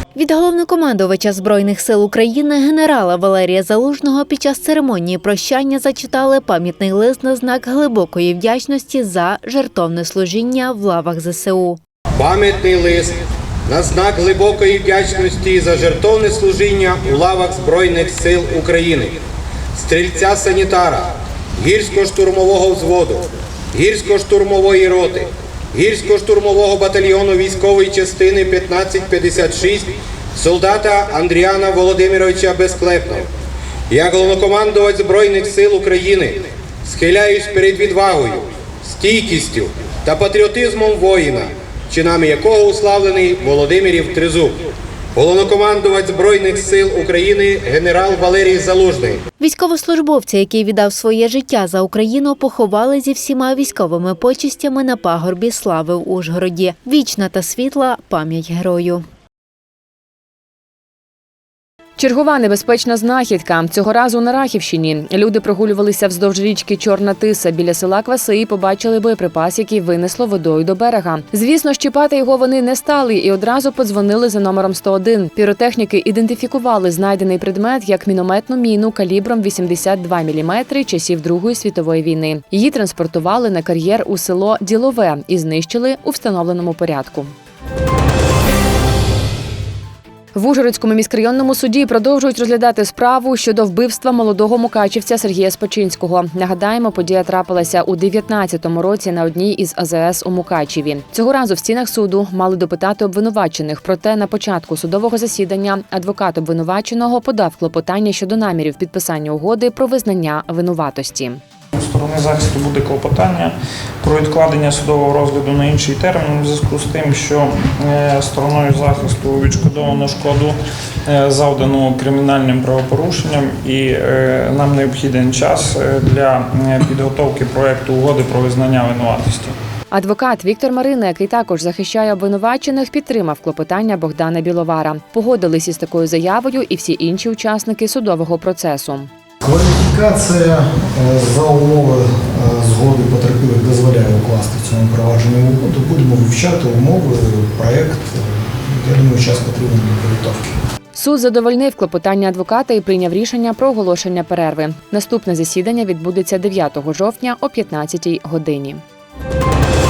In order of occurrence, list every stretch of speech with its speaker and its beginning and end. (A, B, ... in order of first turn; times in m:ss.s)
0:00.1-0:11.8 A
0:12.2-0:19.2 B
0:19.7-0:33.3 B
0:33.9-0:44.6 B
0:45.1-0:49.2 B
0:49.4-0:59.0 A
1:02.0-1:27.3 C
1:30.3-1:51.4 C
1:51.7-2:09.5 D
2:09.9-2:19.1 C
2:19.4-2:30.5 E
2:30.9-2:38.8 C